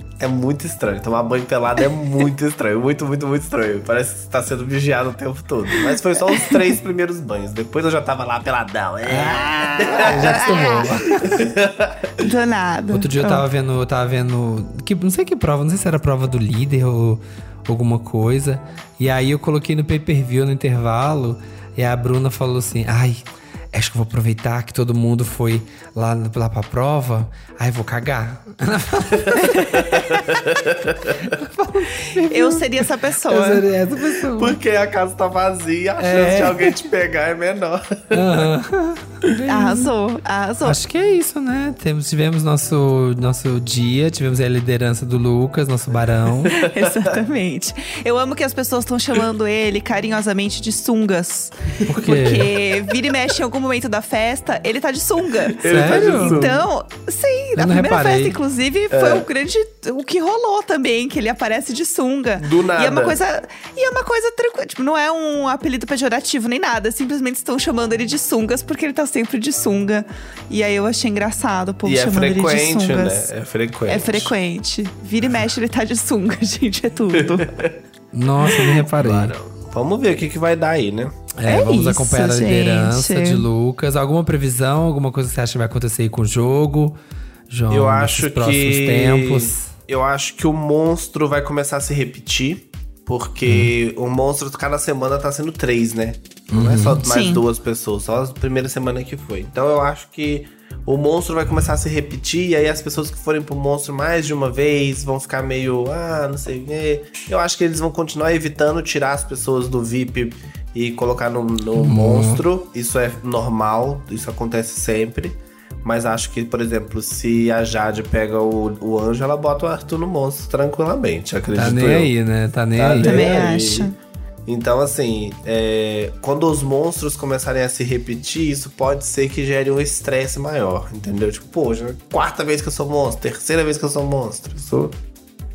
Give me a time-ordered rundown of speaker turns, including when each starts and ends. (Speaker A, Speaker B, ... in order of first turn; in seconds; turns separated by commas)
Speaker A: 0.2-12.1, Speaker B: 9.0-11.4, Speaker C: 9.9-10.7, Speaker C: 12.2-13.4, Speaker B: 12.9-23.2, Speaker B: 23.7-29.8, Speaker A: 29.2-31.2, Speaker B: 31.2-32.7, Speaker C: 32.3-33.6, Speaker B: 33.3-34.6, Speaker A: 34.3-38.5, Speaker B: 36.0-36.7, Speaker B: 38.1-39.9, Speaker C: 39.5-40.8, Speaker B: 40.6-46.5, Speaker A: 46.5-47.1, Speaker C: 46.5-73.3, Speaker B: 51.9-52.5, Speaker A: 55.5-56.6, Speaker B: 55.6-56.6, Speaker B: 57.5-58.4, Speaker A: 58.9-59.2, Speaker A: 62.4-63.2, Speaker A: 71.8-74.3, Speaker C: 73.9-77.6, Speaker B: 78.1-79.3, Speaker A: 78.7-81.2, Speaker B: 81.4-87.0, Speaker C: 81.5-83.4, Speaker B: 87.5-89.7, Speaker A: 87.7-122.1, Speaker B: 93.5-93.7, Speaker B: 96.5-97.0, Speaker C: 97.1-97.4, Speaker B: 111.8-112.4, Speaker B: 121.5-123.3, Speaker A: 122.8-123.9, Speaker C: 123.0-124.0, Speaker A: 124.5-135.0